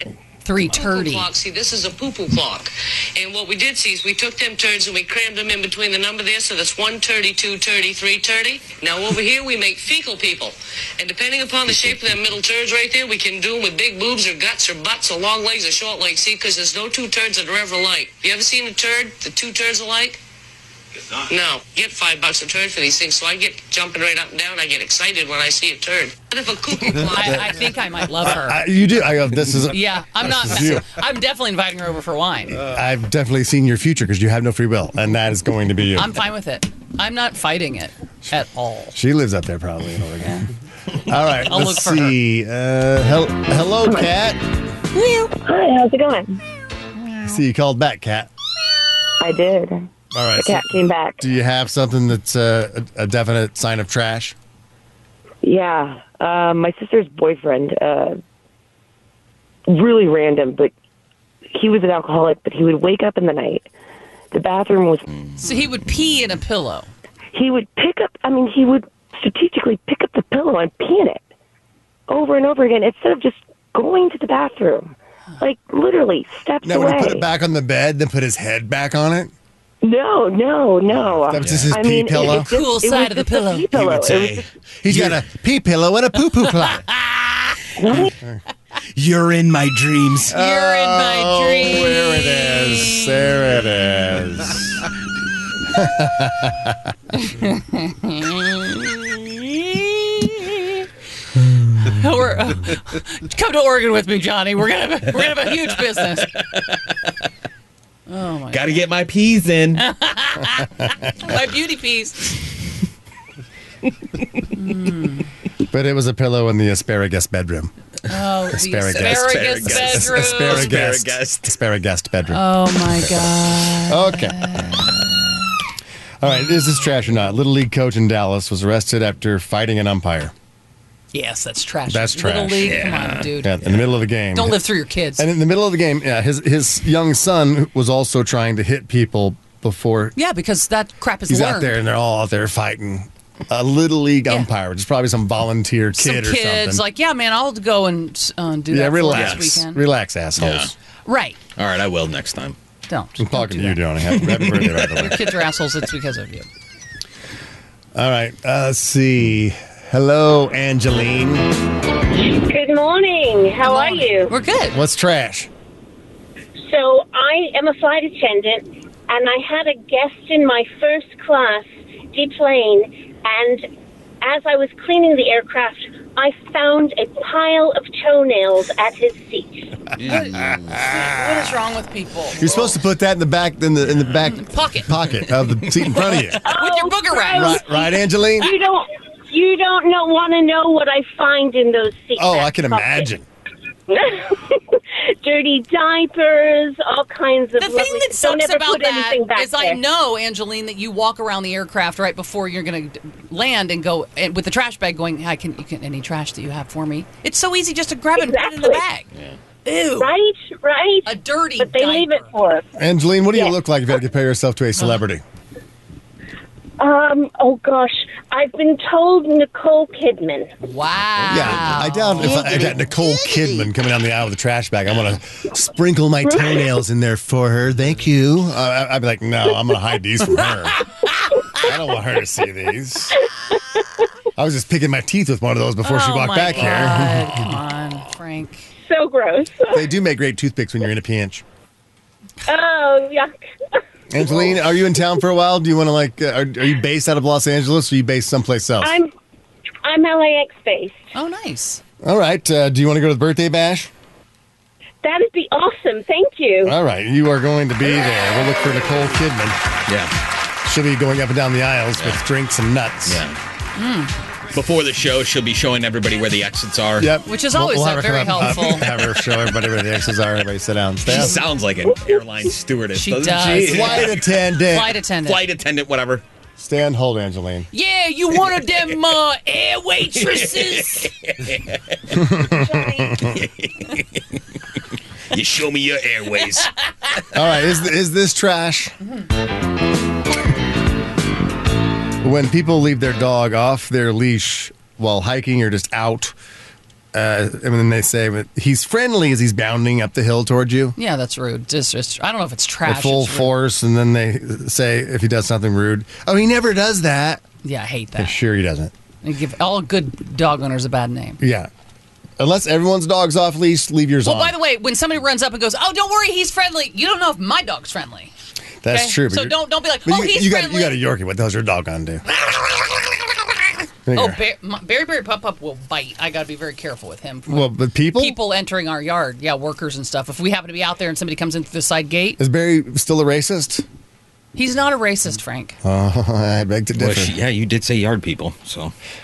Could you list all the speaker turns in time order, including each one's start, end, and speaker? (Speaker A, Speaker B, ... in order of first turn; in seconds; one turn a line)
Speaker A: 0.5-1.3
Speaker B: 0.6-20.2
Speaker B: 21.3-27.7
Speaker A: 27.0-28.7
Speaker C: 28.2-30.9
Speaker A: 29.7-32.7
Speaker C: 32.6-36.1
Speaker A: 36.0-39.0
Speaker C: 39.0-40.5
Speaker C: 41.0-44.4
Speaker A: 41.3-42.2
Speaker D: 45.0-46.4
Speaker C: 47.2-48.3
Speaker D: 49.2-51.2
Speaker C: 50.1-50.7
Speaker C: 51.2-54.4
Speaker D: 55.4-58.2
Speaker D: 59.7-60.7
Speaker D: 61.5-63.7
Speaker D: 64.3-65.5
Speaker A: 65.4-66.9
Speaker D: 67.3-71.2
Speaker D: 72.1-77.2
Speaker C: 76.6-79.3
Speaker D: 79.8-84.5
Speaker C: 81.3-82.5
Speaker E: 81.4-81.7
Speaker A: 82.2-83.7
Speaker E: 83.7-85.2
Speaker C: 84.8-86.9
Speaker A: 86.5-87.2
Speaker D: 87.8-88.1
Speaker E: 89.0-90.3
Speaker C: 90.3-94.9
Speaker A: 90.3-93.3
Speaker C: 95.7-96.8
Speaker A: 97.1-98.9
Speaker A: 101.8-106.3
Speaker E: 106.2-106.6
Speaker A: 108.1-108.9
Speaker E: 108.5-109.8
Speaker A: 109.8-112.4
Speaker A: 114.5-115.3
Speaker C: 115.7-117.7
Speaker A: 118.1-120.8
Speaker C: 118.5-122.4
Speaker E: 118.9-121.5
Speaker A: 122.3-125.5
Speaker C: 123.9-124.5
Speaker C: 126.2-130.3
Speaker A: 126.3-126.5
Speaker A: 131.1-133.6
Speaker C: 131.9-132.8
Speaker E: 132.7-134.0
Speaker C: 133.4-134.7
Speaker A: 134.3-135.3
Speaker C: 135.2-140.2
Speaker A: 140.2-141.8
Speaker C: 141.3-146.8
Speaker A: 146.0-149.8
Speaker C: 148.7-150.7
Speaker E: 149.1-149.5
Speaker E: 150.4-150.7
Speaker A: 151.1-151.4
Speaker E: 151.6-152.6
Speaker A: 152.9-153.8
Speaker C: 153.2-155.2
Speaker E: 154.3-155.0
Speaker A: 155.0-156.5
Speaker C: 158.0-161.6
Speaker F: 162.2-164.3
Speaker A: 163.7-164.8
Speaker C: 164.7-165.5
Speaker F: 166.7-173.7
Speaker F: 174.2-179.7
Speaker E: 180.0-180.6
Speaker A: 180.0-182.5
Speaker C: 180.8-181.1
Speaker C: 182.4-186.4
Speaker A: 184.3-185.0
Speaker A: 185.9-187.8
Speaker F: 186.4-193.1
Speaker C: 187.3-188.5
Speaker C: 192.2-193.2
Speaker F: 193.9-199.8
Speaker A: 197.6-209.1
Speaker F: 208.2-208.8
Speaker A: 209.7-210.1
Speaker F: 210.0-212.7
Speaker A: 211.1-212.3
Speaker C: 212.8-215.2
Speaker F: 216.8-220.5
Speaker A: 220.6-222.7
Speaker C: 221.3-230.8
Speaker E: 221.3-221.7
Speaker F: 226.3-226.5
Speaker C: 231.6-233.2
Speaker C: 234.4-237.5
Speaker A: 235.8-238.7
Speaker F: 238.9-239.8
Speaker C: 239.7-241.4
Speaker F: 242.4-243.3
Speaker C: 244.1-248.9
Speaker F: 248.8-249.1
Speaker F: 249.8-251.0
Speaker A: 251.1-251.8
Speaker C: 252.0-253.9
Speaker F: 255.0-256.8
Speaker C: 256.6-259.6
Speaker E: 259.9-260.1
Speaker C: 260.6-263.2
Speaker E: 263.1-263.4
Speaker A: 263.8-264.1
Speaker E: 264.5-267.1
Speaker C: 267.0-271.4
Speaker A: 267.3-269.0
Speaker E: 271.1-274.2
Speaker A: 272.9-274.1
Speaker C: 273.3-275.0
Speaker A: 274.7-275.4
Speaker E: 275.2-276.2
Speaker C: 276.6-277.7
Speaker A: 277.7-281.1
Speaker E: 280.2-282.2
Speaker C: 282.2-283.3
Speaker E: 283.2-284.2
Speaker E: 285.3-287.2
Speaker C: 287.3-288.9
Speaker C: 292.2-296.4
Speaker C: 297.1-300.9
Speaker A: 301.0-303.6
Speaker C: 302.9-307.4
Speaker A: 307.6-308.4
Speaker C: 308.2-308.9
Speaker A: 309.2-311.4
Speaker C: 311.4-311.7
Speaker C: 312.4-314.6
Speaker A: 314.2-318.3
Speaker C: 318.8-323.0
Speaker A: 318.9-321.0
Speaker C: 324.1-324.4
Speaker A: 324.1-332.4
Speaker C: 327.5-328.4
Speaker C: 332.4-333.9
Speaker A: 334.6-335.8
Speaker C: 335.8-337.4
Speaker E: 337.0-338.9